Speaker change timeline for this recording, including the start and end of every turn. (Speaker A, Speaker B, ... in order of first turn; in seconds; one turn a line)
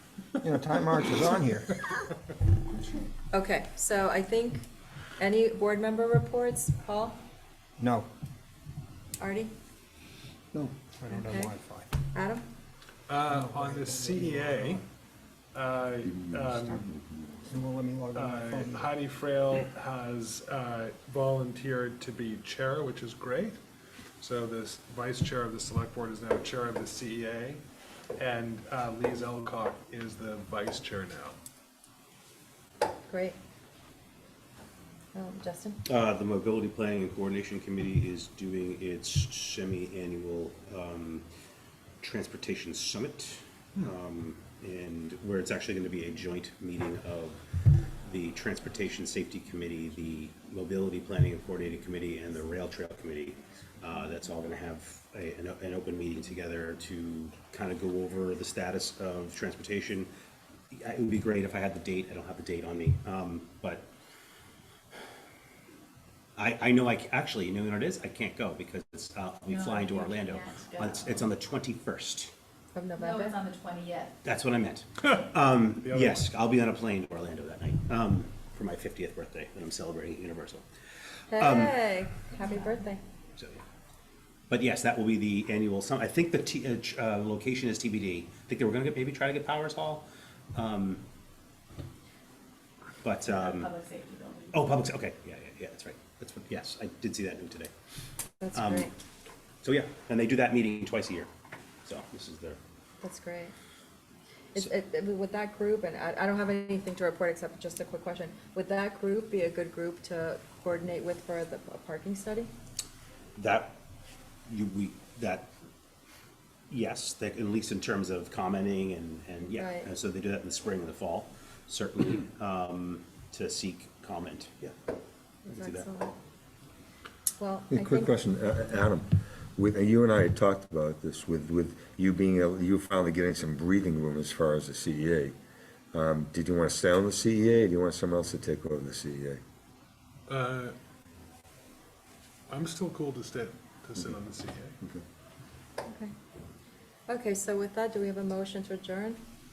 Speaker A: 0.4-1.8
Speaker B: 1.1-1.4
Speaker C: 3.3-4.6
Speaker C: 5.2-7.2
Speaker A: 7.8-8.1
Speaker C: 9.2-9.5
Speaker A: 10.5-11.9
Speaker C: 11.1-11.5
Speaker C: 12.1-12.4
Speaker B: 13.1-14.8
Speaker A: 13.3-14.8
Speaker B: 15.5-16.8
Speaker D: 16.0-17.4
Speaker A: 17.4-18.9
Speaker B: 18.1-23.6
Speaker B: 24.2-27.6
Speaker B: 28.2-31.3
Speaker C: 33.1-33.4
Speaker C: 35.1-35.8
Speaker E: 35.9-41.2
Speaker E: 42.0-47.4
Speaker E: 48.0-60.1
Speaker E: 60.7-63.9
Speaker E: 66.3-72.3
Speaker F: 69.5-71.2
Speaker C: 72.7-73.4
Speaker F: 73.0-74.2
Speaker E: 74.2-80.6
Speaker B: 75.8-76.2
Speaker C: 81.3-83.0
Speaker E: 81.3-81.7
Speaker E: 83.4-83.6
Speaker E: 84.5-91.0
Speaker E: 93.0-93.7
Speaker F: 93.3-94.8
Speaker E: 94.5-97.7
Speaker C: 98.4-98.9
Speaker E: 98.5-98.9
Speaker E: 99.6-101.3
Speaker E: 101.8-102.6
Speaker C: 103.0-103.5
Speaker C: 104.5-112.5
Speaker E: 113.3-113.8
Speaker E: 114.5-115.5
Speaker E: 116.7-124.7
Speaker C: 119.5-119.9
Speaker E: 125.5-125.9
Speaker C: 125.5-126.1
Speaker C: 127.4-128.1
Speaker D: 127.7-135.3
Speaker D: 135.9-139.4
Speaker B: 140.3-140.7
Speaker B: 142.5-144.8
Speaker C: 145.8-146.1
Speaker C: 147.1-149.2